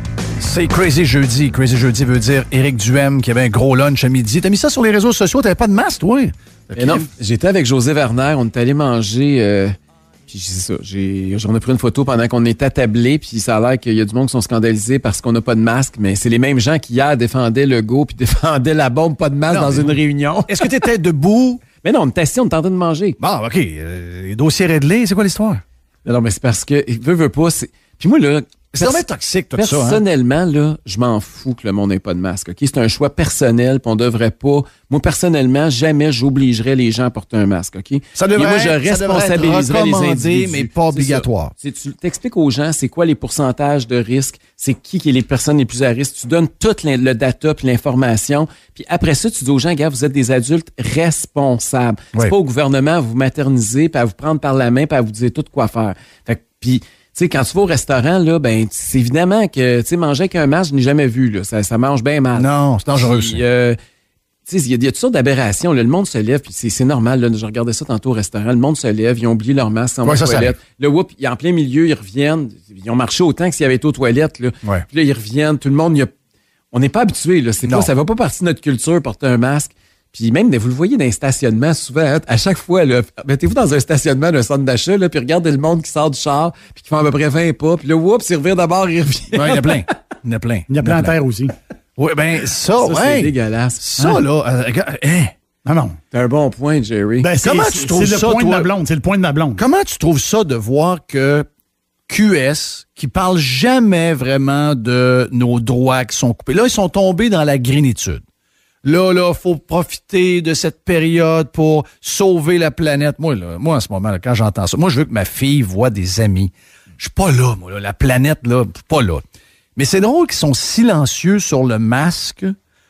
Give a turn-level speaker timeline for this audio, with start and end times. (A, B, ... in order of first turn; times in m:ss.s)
0:00.4-0:07.0 A
0:06.7-0:09.7 B
0:10.3-0:20.7 B
0:19.5-0:21.6 A
0:21.8-0:23.2 B
0:23.2-0:25.6 A
0:26.0-1:03.8 B
0:28.7-0:30.0 A
0:38.1-0:41.5 A
1:02.3-1:03.4 A
1:04.4-1:16.1 B
1:10.0-1:10.6 A
1:16.7-1:29.8 B
1:17.6-1:17.9 A
1:29.3-1:31.1 A
1:30.7-1:31.5 C
1:32.0-1:35.3 A
1:32.7-1:33.8 B
1:35.6-1:36.0 C
1:36.1-1:37.3 B
1:37.2-1:39.6 C
1:37.4-1:38.7 A
1:39.6-1:41.4 A
1:42.1-1:48.2 A
1:48.8-1:59.2 A
1:59.8-2:02.5 A